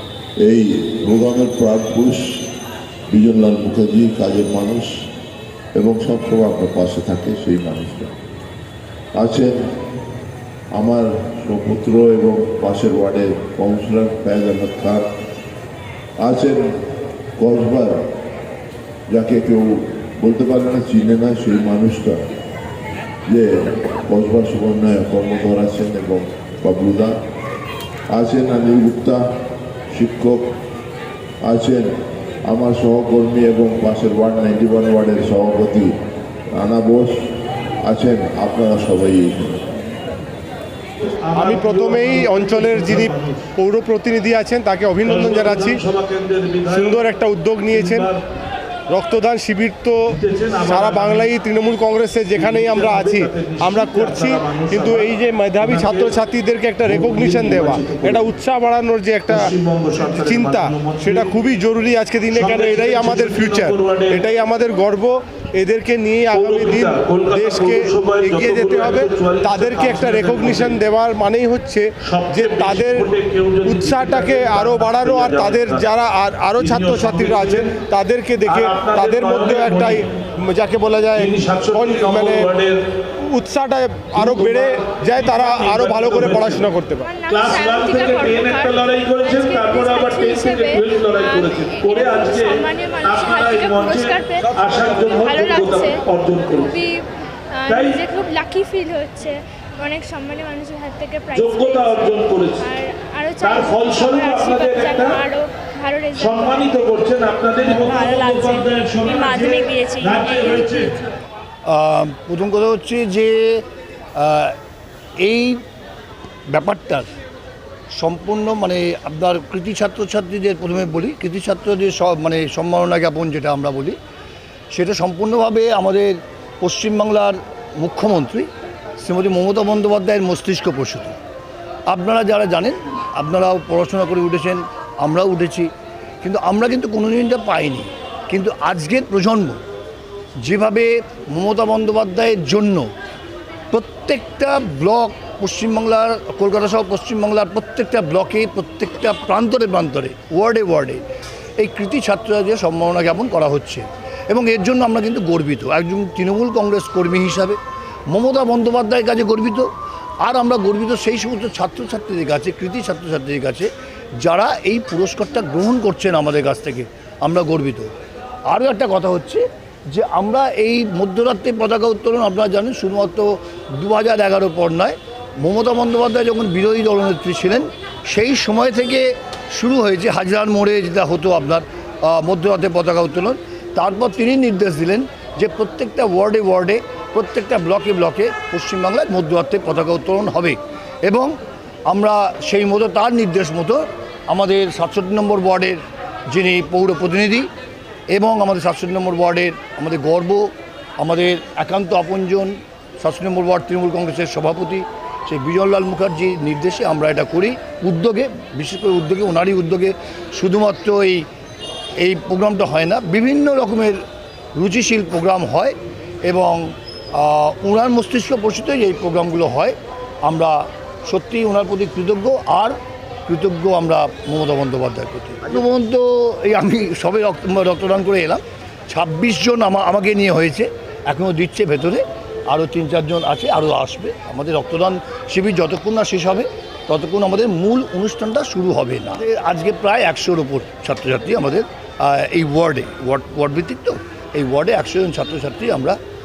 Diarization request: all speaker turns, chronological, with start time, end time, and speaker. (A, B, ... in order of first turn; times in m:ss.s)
0:00.4-0:02.4 A
0:03.1-0:05.0 A
0:05.7-0:08.1 A
0:09.2-0:09.6 A
0:10.7-0:15.1 A
0:16.2-0:16.8 A
0:17.4-0:18.0 A
0:19.1-0:22.2 A
0:23.3-0:27.2 A
0:28.1-0:29.2 A
0:29.9-0:30.5 A
0:31.4-0:31.9 A
0:32.4-0:36.0 A
0:36.5-0:37.3 A
0:37.8-0:39.7 A
0:41.0-0:43.5 B
0:41.3-0:45.8 C
0:45.0-0:48.2 B
0:46.7-0:48.1 C
0:48.9-0:59.5 C
0:50.1-0:51.4 B
0:52.3-0:56.2 B
0:56.8-0:58.3 B
0:59.3-1:01.5 B
1:00.0-1:13.1 C
1:02.3-1:04.3 B
1:06.3-1:10.8 B
1:12.0-1:15.9 B
1:13.6-1:22.5 C
1:16.6-1:17.8 B
1:18.4-1:20.1 B
1:21.2-1:22.8 B
1:23.2-1:27.2 C
1:24.2-1:26.8 B
1:27.0-1:36.0 D
1:27.3-1:36.9 B
1:36.7-1:46.7 D
1:37.7-1:38.0 B
1:41.3-1:42.8 B
1:43.4-1:45.2 B
1:46.2-1:50.9 B
1:47.7-1:51.2 D
1:51.6-1:54.6 E
1:55.2-1:55.6 E
1:56.5-1:57.1 E
1:57.9-2:04.0 E
2:04.7-2:11.2 E
2:11.9-2:15.7 E
2:16.2-2:19.6 E
2:20.4-2:22.9 E
2:23.7-2:31.0 E
2:31.6-2:37.6 E
2:38.1-2:39.7 E
2:40.2-2:43.7 E
2:44.2-2:47.9 E
2:48.5-3:11.4 E
3:11.9-3:17.5 E
3:18.1-3:31.2 E
3:32.0-3:34.0 E
3:34.5-4:06.0 E